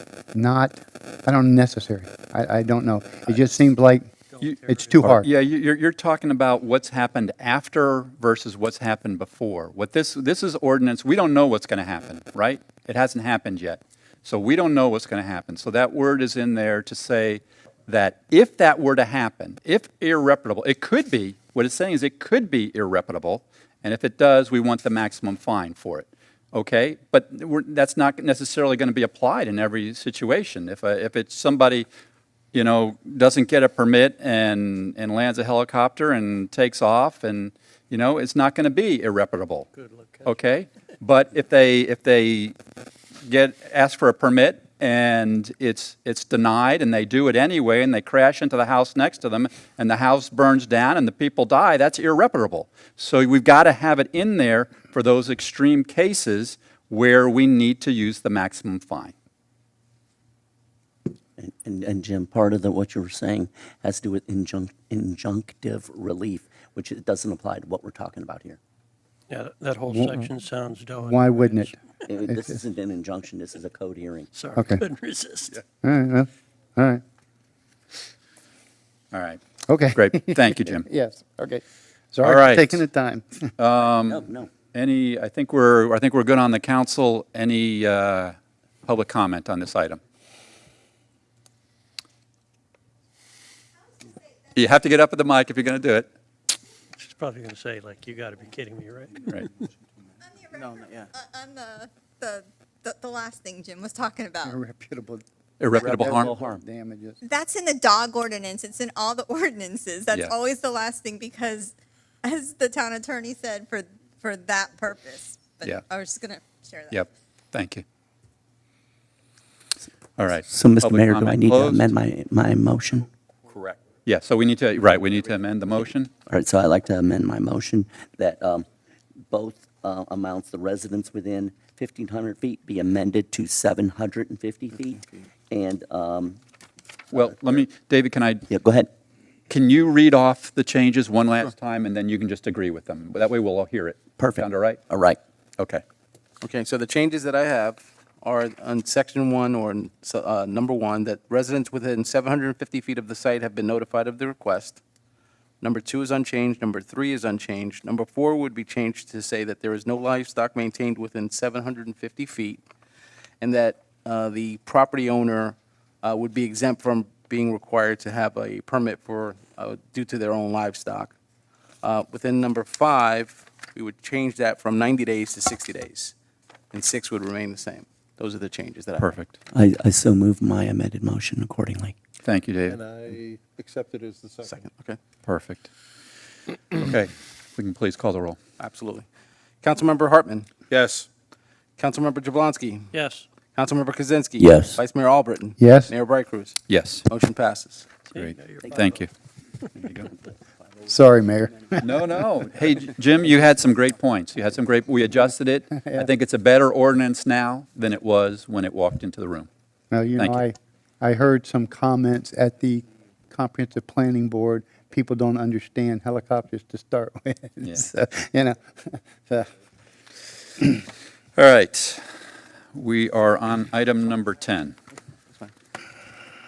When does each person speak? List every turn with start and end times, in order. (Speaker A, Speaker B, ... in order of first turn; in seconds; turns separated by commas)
Speaker A: 0.3-4.1, Speaker B: 4.3-5.2, Speaker C: 4.4-31.9, Speaker A: 4.6-5.3, Speaker C: 32.5-39.7, Speaker B: 39.8-40.4, Speaker C: 40.2-42.5, Speaker C: 43.3-59.1, Speaker D: 61.4-68.6, Speaker B: 69.3-71.8, Speaker A: 69.9-70.3, Speaker A: 71.0-71.8, Speaker D: 72.1-74.3, Speaker B: 74.3-75.6, Speaker A: 74.6-74.8, Speaker A: 75.8-77.0, Speaker C: 79.1-79.4, Speaker A: 79.7-83.5, Speaker C: 79.9-80.9, Speaker C: 82.2-82.8, Speaker C: 83.6-88.3, Speaker D: 84.1-84.5, Speaker C: 88.9-90.0, Speaker C: 94.5-96.1, Speaker B: 97.0-99.4, Speaker E: 100.2-104.6, Speaker A: 104.4-105.2, Speaker C: 105.6-106.3, Speaker A: 105.8-107.2, Speaker D: 105.8-106.6, Speaker E: 107.2-117.1, Speaker C: 116.9-117.8, Speaker C: 120.2-121.9, Speaker D: 120.5-123.1, Speaker C: 123.5-126.1, Speaker D: 126.3-128.7, Speaker D: 129.3-136.4, Speaker C: 137.1-138.5, Speaker D: 138.5-138.9, Speaker C: 139.5-144.8, Speaker D: 144.2-145.2, Speaker F: 146.4-154.8, Speaker F: 155.6-162.6, Speaker F: 163.4-171.1, Speaker F: 171.8-176.1, Speaker F: 176.7-179.1, Speaker C: 179.0-179.4, Speaker D: 179.5-181.9, Speaker C: 182.2-182.8, Speaker G: 182.7-184.6, Speaker F: 184.5-185.0, Speaker C: 185.3-185.7, Speaker C: 186.7-188.4, Speaker F: 188.6-189.1, Speaker F: 189.6-191.1, Speaker F: 191.8-192.9, Speaker B: 192.9-193.3, Speaker F: 193.5-198.0, Speaker D: 194.4-194.8, Speaker A: 195.6-195.9, Speaker C: 196.7-197.1, Speaker C: 198.1-199.1, Speaker B: 198.1-199.0, Speaker A: 200.9-202.0, Speaker C: 201.8-209.5, Speaker A: 205.8-206.1, Speaker A: 209.9-219.5, Speaker C: 221.4-222.0, Speaker C: 222.7-224.8